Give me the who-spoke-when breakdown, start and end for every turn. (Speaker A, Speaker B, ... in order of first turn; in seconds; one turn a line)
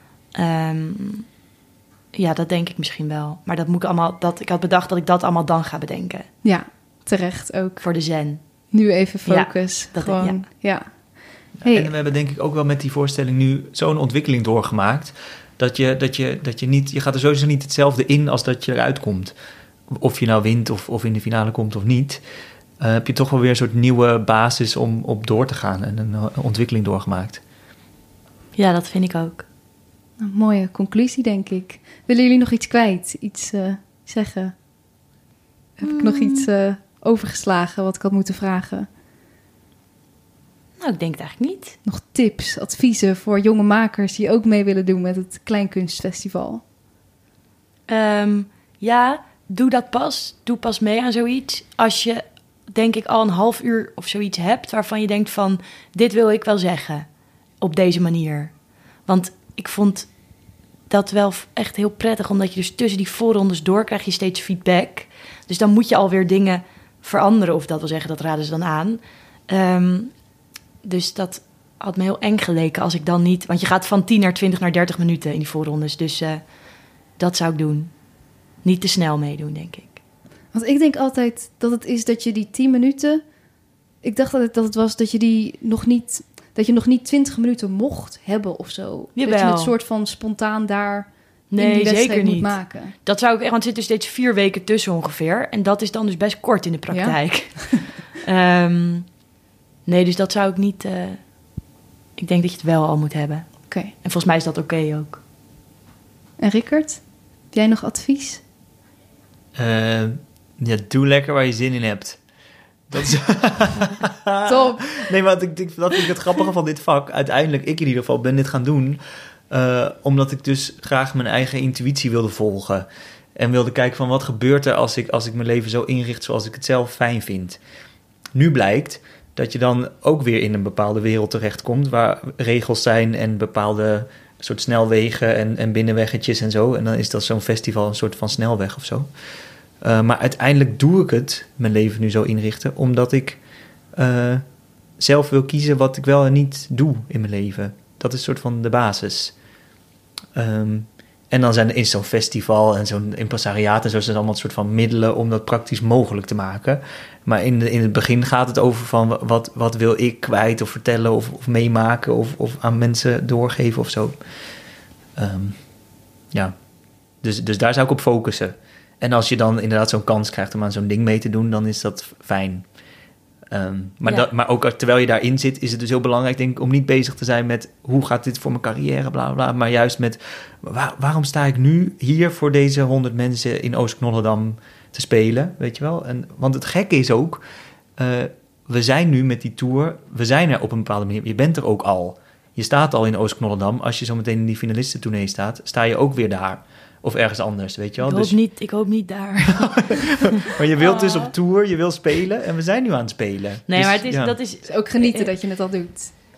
Speaker A: 0.3-1.3
Speaker A: 2.1-6.3
Speaker B: 6.4-7.8
Speaker A: 7.8-8.4
Speaker B: 8.7-11.9
Speaker A: 9.2-10.4
Speaker C: 11.6-19.3
Speaker C: 19.9-22.2
Speaker C: 22.8-27.4
Speaker A: 28.6-29.4
Speaker B: 30.2-34.5
Speaker B: 35.8-38.9
Speaker A: 35.8-36.5
Speaker A: 40.8-41.8
Speaker B: 41.9-46.6
Speaker A: 47.9-57.1
Speaker A: 57.6-58.5
Speaker A: 59.1-60.1
Speaker A: 60.9-70.1
Speaker A: 70.8-76.4
Speaker A: 77.2-77.9
Speaker A: 78.6-80.0
Speaker B: 80.5-83.2
Speaker B: 84.0-92.9
Speaker A: 89.2-89.7
Speaker A: 91.5-99.1
Speaker B: 96.9-97.7
Speaker A: 99.8-101.2
Speaker A: 102.2-105.2
Speaker B: 106.4-108.4
Speaker C: 109.5-112.2
Speaker C: 112.9-127.6
Speaker B: 114.5-115.0
Speaker C: 128.3-139.1
Speaker C: 139.8-143.4
Speaker C: 143.9-144.4
Speaker C: 145.0-149.3
Speaker C: 150.3-164.1
Speaker C: 165.2-165.6
Speaker C: 167.2-172.7
Speaker C: 173.5-187.4
Speaker C: 188.0-198.3
Speaker A: 198.0-200.1
Speaker C: 199.7-204.4
Speaker B: 201.0-201.3
Speaker A: 203.7-205.3
Speaker B: 204.7-206.1